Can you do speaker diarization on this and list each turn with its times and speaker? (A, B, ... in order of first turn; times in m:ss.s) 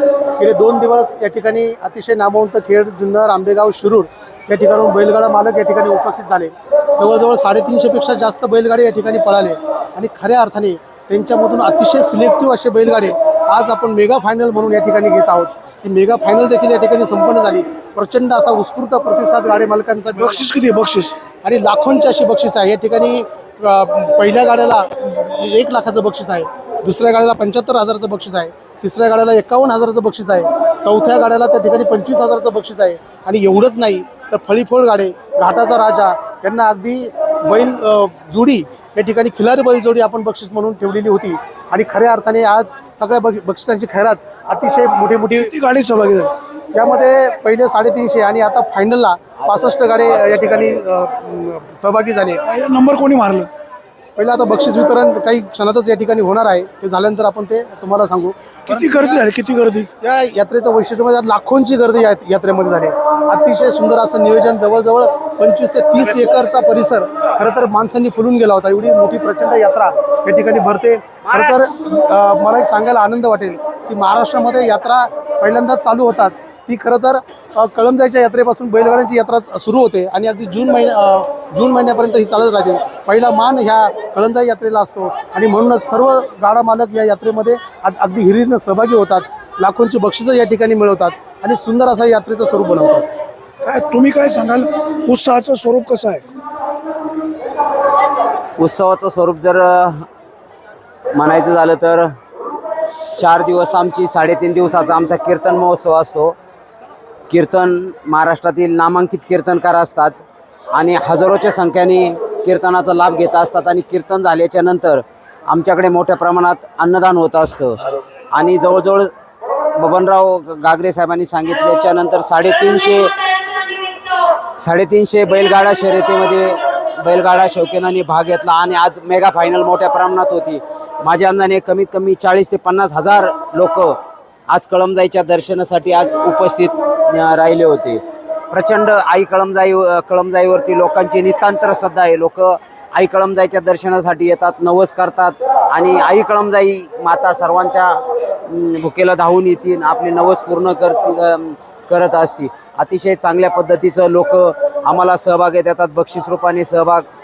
0:00.4-0:20.5 A
0:20.2-0:21.2 B
0:21.4-0:45.5 A
0:45.4-0:46.4 B
0:46.7-0:52.4 A
0:52.5-0:53.5 B
0:54.2-0:59.2 A
0:58.7-0:59.9 B
1:00.0-1:33.1 A
1:33.6-1:36.2 B
1:38.6-1:40.0 C
1:41.1-1:42.1 C
1:43.2-1:46.4 C
1:47.3-1:50.2 C
1:50.7-1:57.8 C
1:58.3-1:59.1 C
1:59.8-2:03.2 C
2:04.6-2:14.0 C
2:14.5-2:37.0 C